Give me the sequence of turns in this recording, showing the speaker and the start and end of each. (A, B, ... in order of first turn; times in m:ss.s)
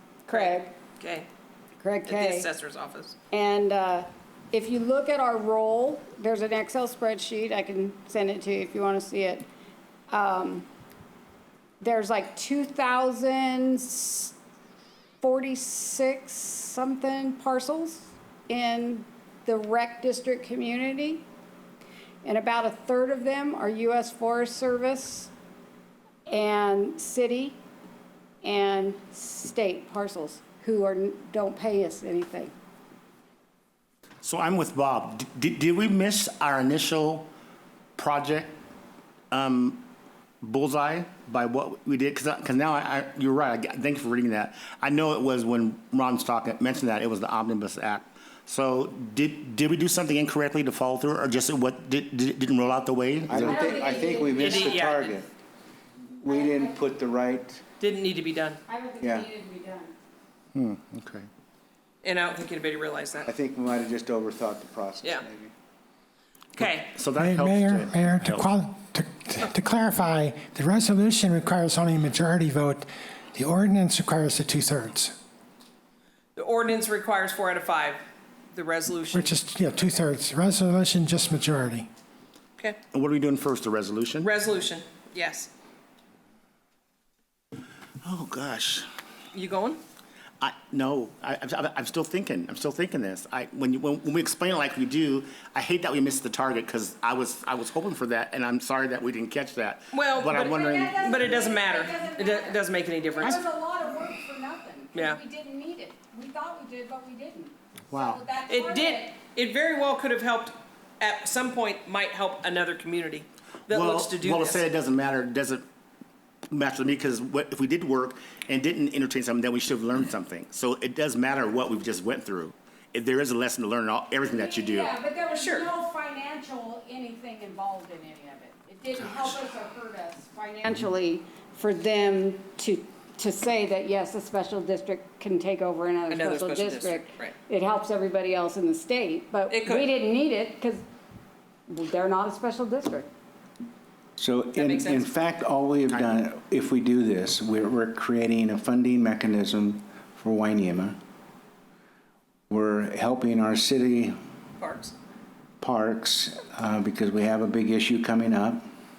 0:00.2-0:00.7 A
0:00.3-0:01.3 B
0:01.8-0:02.5 A
0:02.0-0:03.2 B
0:03.3-0:09.4 A
0:10.1-0:10.6 A
0:11.8-0:14.3 A
0:15.2-0:21.2 A
0:22.2-0:25.3 A
0:26.3-0:27.6 A
0:28.4-0:32.5 A
0:34.2-0:37.3 C
0:38.0-0:38.6 C
0:39.3-0:39.8 C
0:40.4-0:53.6 C
0:53.3-0:55.3 D
0:53.4-0:55.2 A
0:54.4-0:55.2 B
0:56.2-0:57.6 D
0:56.2-0:56.8 A
0:57.8-0:58.6 B
0:58.7-0:59.9 A
0:59.0-0:59.3 D
1:00.5-1:01.3 C
1:02.0-1:03.3 B
1:03.2-1:05.5 D
1:06.6-1:07.0 B
1:06.6-1:08.6 C
1:07.2-1:15.2 E
1:16.4-1:19.4 B
1:19.1-1:21.9 E
1:22.9-1:24.3 C
1:24.2-1:25.5 B
1:28.0-1:28.9 C
1:29.3-1:29.8 B
1:30.4-1:41.0 C
1:39.9-1:43.4 B
1:40.3-1:49.2 A
1:44.9-1:45.2 B
1:47.9-1:48.2 C
1:48.5-1:54.6 B
1:53.7-1:55.6 C
1:56.5-2:04.9 C
2:04.2-2:20.8 A
2:05.3-2:05.7 B
2:16.1-2:17.3 B
2:19.5-2:19.9 B
2:21.7-2:23.1 A
2:24.2-2:31.0 D
2:24.6-2:25.1 B
2:25.9-2:26.2 C
2:32.5-2:34.2 D
2:34.6-2:34.9 B
2:35.6-2:38.6 D